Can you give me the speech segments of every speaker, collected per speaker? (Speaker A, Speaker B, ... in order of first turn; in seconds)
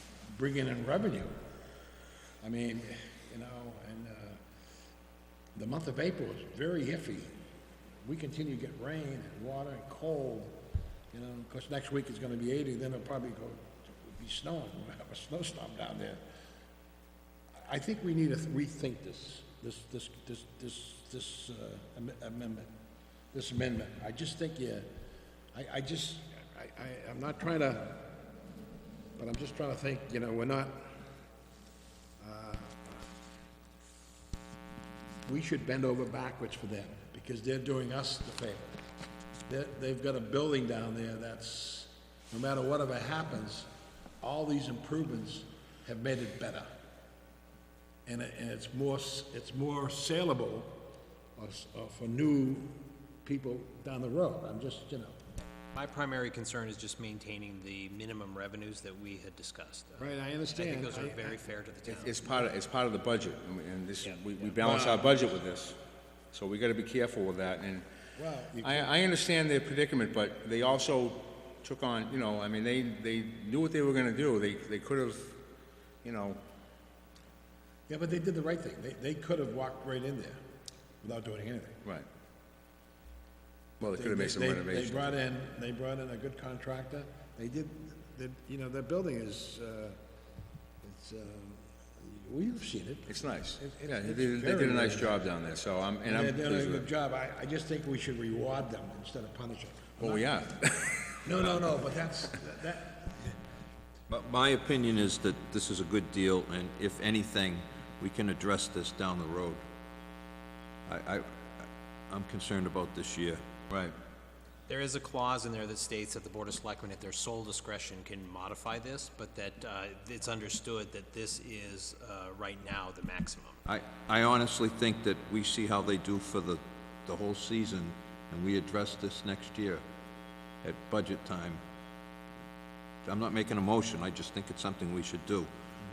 Speaker A: 0.2-1.3, 2.4-4.4, 5.5-7.3, 8.0-16.2, 17.5-22.7, 23.3-24.9, 25.5-28.2, 29.2-31.0, 32.2-33.0, 35.2-38.8, 39.5-43.7, 44.2-46.7, 48.0-50.8, 51.4-55.2, 60.0-61.4, 64.6-65.2, 68.2-68.9, 77.9-80.4, 81.0-81.8, 83.8-90.0, 90.8-95.2, 96.0-100.3, 101.2-103.4
Speaker B: 55.7-62.2, 64.0-64.5, 114.7-123.6
Speaker C: 61.9-65.8, 66.3-67.8, 68.6-75.4, 76.0-76.4, 83.8-85.2, 93.1-96.9, 100.0-101.5, 113.7-114.0
Speaker D: 104.1-109.6, 110.8-113.4, 123.7-129.8, 130.6-131.6, 133.0-135.5